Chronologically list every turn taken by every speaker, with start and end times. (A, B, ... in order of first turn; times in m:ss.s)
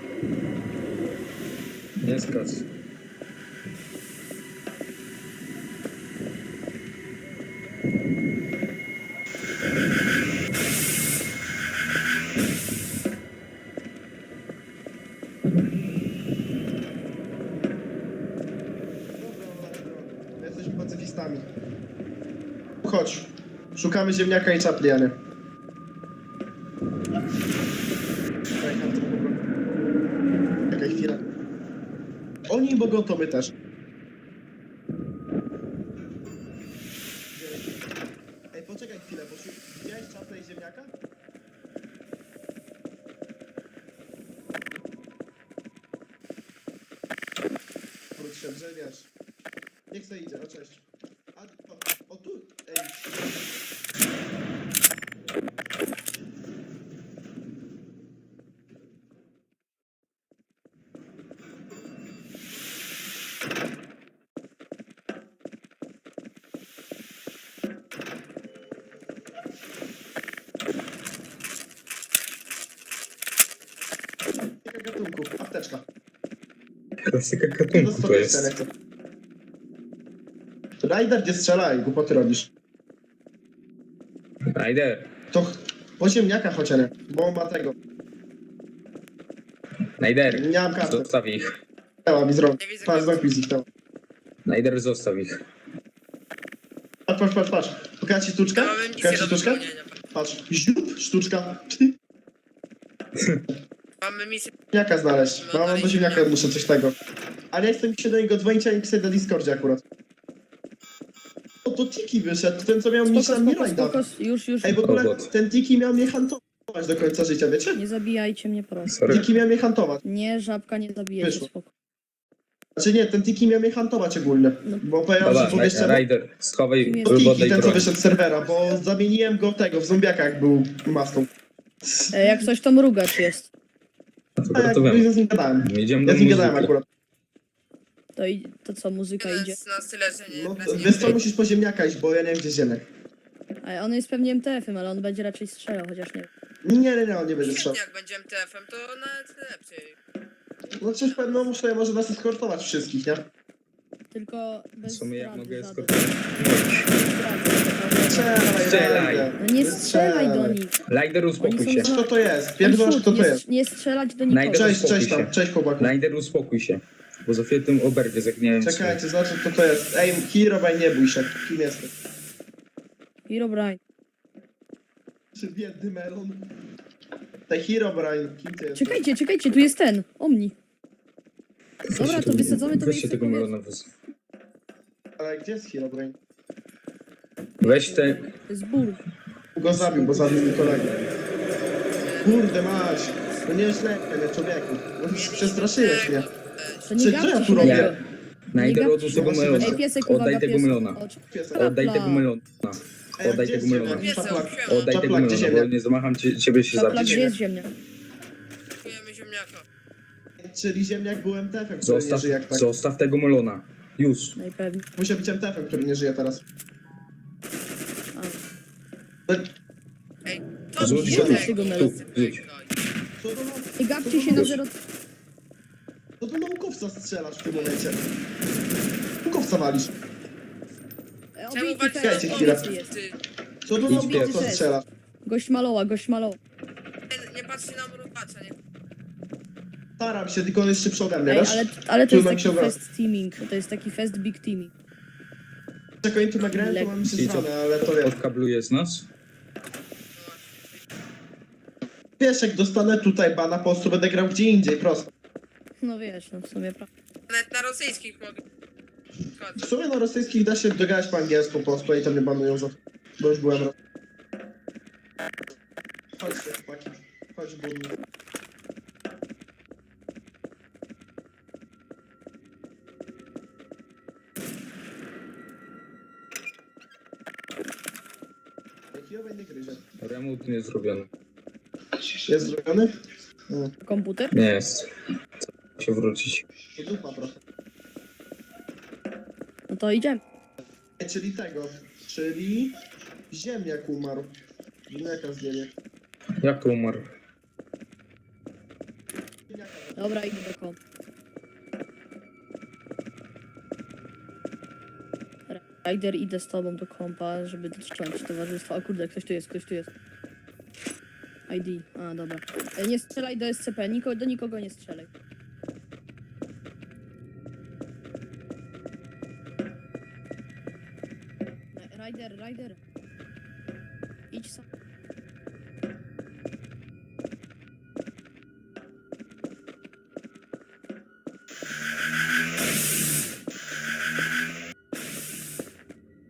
0:02.0-0:02.6 A
0:19.2-0:21.5 B
0:22.8-0:25.2 B
0:28.6-0:29.4 B
0:30.7-0:31.2 B
0:32.5-0:33.5 B
0:37.3-0:37.8 B
0:38.5-0:40.9 B
0:48.2-0:49.1 B
0:49.9-0:50.8 B
0:51.3-0:53.1 B
1:14.6-1:15.8 B
1:17.1-1:18.5 A
1:17.7-1:18.7 B
1:20.8-1:22.5 B
1:24.5-1:25.1 A
1:25.3-1:27.7 B
1:30.0-1:31.5 A
1:30.3-1:31.1 B
1:32.0-1:33.6 B
1:32.6-1:33.3 C
1:34.4-1:35.4 A
1:37.1-1:41.9 B
1:38.5-1:40.0 C
1:44.0-1:44.5 C
1:44.7-1:47.0 B
1:45.3-1:46.5 C
1:47.5-1:49.8 B
1:51.6-1:54.0 B
1:53.1-1:54.8 D
1:54.6-1:57.8 B
1:54.8-1:55.3 A
1:57.7-1:59.2 D
1:58.8-1:59.3 A
1:59.1-2:00.0 B
2:00.0-2:01.7 D
2:01.2-2:01.5 B
2:02.8-2:06.0 B
2:05.2-2:07.9 A
2:06.8-2:07.4 D
2:07.0-2:11.3 B
2:11.8-2:12.4 B
2:12.1-2:13.5 D
2:14.4-2:15.1 A
2:14.5-2:16.8 B
2:15.6-2:16.7 A
2:18.2-2:19.6 D
2:19.2-2:21.2 C
2:20.3-2:22.8 B
2:23.6-2:26.3 D
2:26.6-2:27.8 B
2:27.4-2:30.0 C
2:30.8-2:33.2 B
2:30.8-2:31.4 C
2:34.1-2:36.2 D
2:34.8-2:36.9 A
2:36.8-2:40.7 D
2:38.1-2:40.6 B
2:38.6-2:39.3 A
2:40.9-2:41.9 A
2:41.4-2:44.7 D
2:41.8-2:43.4 B
2:44.3-2:49.0 A
2:44.5-2:45.9 B
2:48.6-2:51.9 B
2:53.3-2:53.8 D
2:55.3-2:56.5 B
2:57.5-2:59.0 B
2:58.7-3:00.5 D
3:01.9-3:03.9 A
3:01.9-3:03.5 D
3:05.2-3:06.2 B
3:07.6-3:08.2 A
3:07.6-3:09.0 D
3:09.5-3:10.9 B
3:09.8-3:11.1 A
3:12.0-3:13.3 C
3:12.2-3:16.3 B
3:15.1-3:16.9 C
3:16.9-3:18.0 D
3:16.9-3:18.0 B
3:17.6-3:17.9 A
3:18.5-3:21.0 A
3:18.5-3:22.2 D
3:19.1-3:19.8 B
3:21.3-3:21.7 B
3:21.5-3:27.2 A
3:23.2-3:25.7 B
3:23.9-3:24.9 C
3:26.7-3:27.7 D
3:26.9-3:27.4 B
3:28.8-3:29.6 C
3:30.4-3:32.7 B
3:31.8-3:34.4 A
3:34.4-3:34.8 D
3:35.0-3:36.4 B
3:38.1-3:38.4 D
3:40.2-3:42.7 C
3:40.8-3:42.4 A
3:40.8-3:42.0 D
3:41.0-3:41.5 B
3:43.2-3:44.6 B
3:43.8-3:44.7 D
3:46.2-3:48.0 B
3:49.2-3:49.9 B
3:51.4-3:52.9 D
3:51.5-3:53.2 C
3:52.0-3:52.6 B
3:53.6-3:54.8 B
3:53.8-3:54.4 A
3:53.8-3:54.7 D
3:55.2-3:56.4 D
3:57.1-3:58.5 C
4:00.0-4:02.8 B
4:01.3-4:04.7 D
4:06.0-4:08.1 B
4:06.4-4:07.0 D
4:07.1-4:09.1 A
4:10.1-4:10.8 C
4:12.2-4:15.1 B
4:15.8-4:16.9 D
4:17.3-4:18.4 C
4:19.3-4:19.6 C
4:19.6-4:23.7 B
4:26.2-4:28.0 B
4:38.9-4:39.8 B
4:40.0-4:41.1 A
4:42.2-4:42.9 B
4:43.8-4:44.3 D
4:44.3-4:44.8 A
4:45.4-4:46.4 A
4:46.8-4:47.4 B
4:49.7-4:50.2 D
4:51.0-4:52.8 B
4:53.3-4:54.3 B
4:54.9-4:55.8 B
4:56.4-4:57.0 A
4:59.5-5:00.2 B
5:00.0-5:00.8 D
5:05.5-5:09.9 D
5:11.5-5:15.1 D
5:21.7-5:22.8 D
5:24.3-5:24.6 D